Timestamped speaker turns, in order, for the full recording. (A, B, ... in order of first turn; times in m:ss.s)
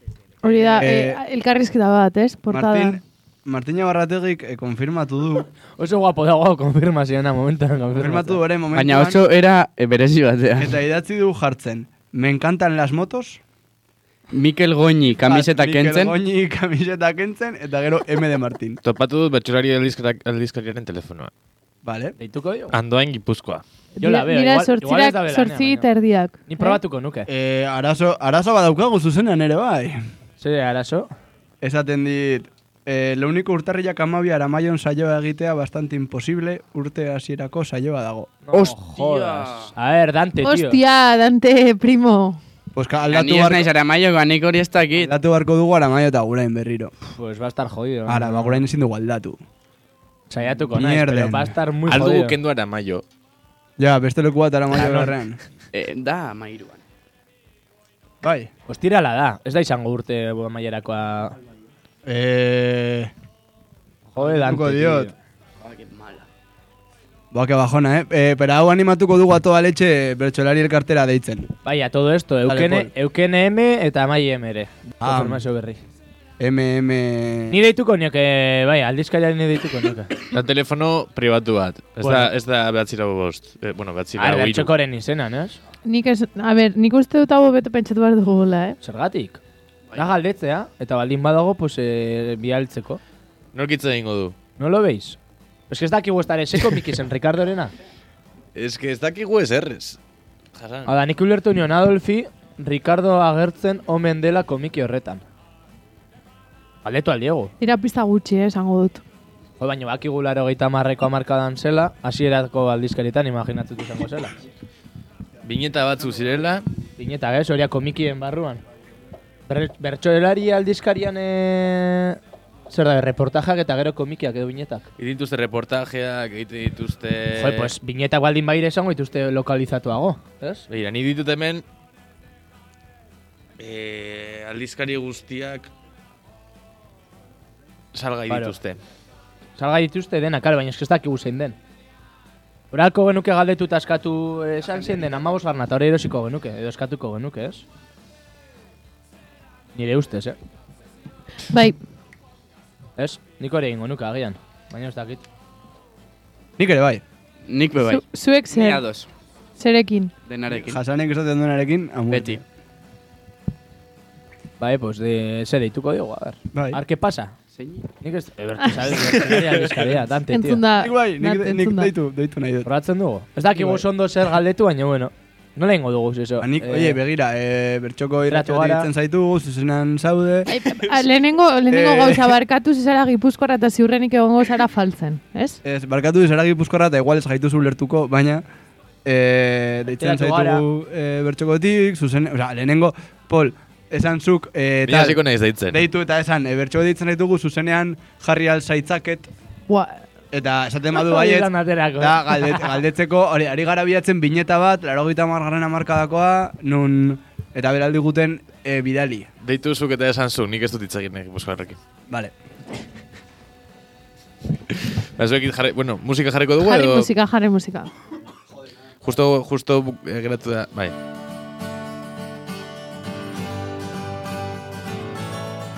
0:00.4-0:03.0 A
0:00.4-0:00.8 B
0:00.8-0:01.2 C
0:02.5-0:05.5 C
0:05.8-0:08.4 B
0:08.0-0:09.2 C
0:08.7-0:10.8 D
0:10.6-0:13.4 C
0:14.3-0:16.1 D
0:15.2-0:18.8 C
0:18.8-0:21.3 E
0:21.8-0:22.1 C
0:22.2-0:22.8 B
0:22.7-0:23.6 E
0:24.0-0:25.9 B
0:24.0-0:26.8 A
0:26.5-0:27.3 B
0:27.3-0:30.0 C
0:30.4-0:31.1 B
0:31.6-0:38.3 C
0:38.4-0:40.8 B
0:38.5-0:39.7 D
0:40.4-0:42.4 A
0:42.7-0:43.7 C
0:43.1-0:45.1 D
0:45.0-0:46.9 C
0:47.1-0:48.6 B
0:48.1-0:49.4 C
0:50.3-0:52.4 B
0:50.6-0:51.5 C
0:51.9-0:53.0 E
0:53.8-0:55.4 C
0:54.7-0:55.1 B
0:55.7-0:56.8 D
0:58.2-0:58.5 C
0:58.7-1:01.4 B
1:02.0-1:03.1 C
1:04.1-1:05.1 B
1:04.2-1:05.1 C
1:05.6-1:06.2 D
1:07.3-1:11.5 C
1:11.6-1:15.8 B
1:12.5-1:12.9 C
1:15.0-1:15.4 C
1:16.4-1:17.6 C
1:17.5-1:20.1 B
1:20.3-1:24.7 E
1:22.0-1:22.3 B
1:24.2-1:25.6 B
1:25.8-1:28.8 A
1:28.8-1:29.4 B
1:29.9-1:33.0 B
1:33.5-1:34.4 E
1:34.6-1:35.2 B
1:35.7-1:37.7 B
1:38.5-1:40.0 E
1:40.6-1:40.9 E
1:40.8-1:45.2 B
1:46.8-1:47.5 B
1:47.6-1:49.0 A
1:49.6-1:54.4 B
1:55.4-1:56.6 E
1:57.0-1:58.6 B
1:59.5-2:02.2 B
2:02.7-2:04.9 B
2:05.0-2:07.7 E
2:07.3-2:10.6 B
2:10.7-2:11.6 E
2:13.6-2:15.7 E
2:17.9-2:18.8 E
2:19.6-2:21.6 B
2:22.7-2:27.6 B
2:29.7-2:30.4 B
2:31.5-2:31.8 A
2:33.0-2:35.2 B
2:36.6-2:37.0 C
2:37.5-2:39.1 D
2:37.8-2:38.8 A
2:39.6-2:40.1 A
2:40.3-2:40.8 D
2:40.5-2:42.4 C
2:42.1-2:42.4 D
2:44.6-2:47.3 B
2:46.5-2:46.8 C
2:47.5-2:47.8 D
2:48.0-2:50.6 B
2:50.3-2:51.9 A
2:50.8-2:52.7 C
2:52.6-2:57.0 B
2:53.5-2:53.8 C
2:56.4-3:00.7 C
2:58.3-2:58.9 B
3:00.5-3:05.6 A
3:01.7-3:02.4 C
3:05.6-3:08.4 C
3:09.0-3:19.3 C
3:09.9-3:10.6 B
3:14.8-3:15.8 E
3:19.7-3:20.0 A
3:20.3-3:29.3 C
3:21.0-3:22.8 B
3:29.4-3:31.8 E
3:35.2-3:37.1 E
3:36.6-3:37.9 A
3:39.0-3:40.9 E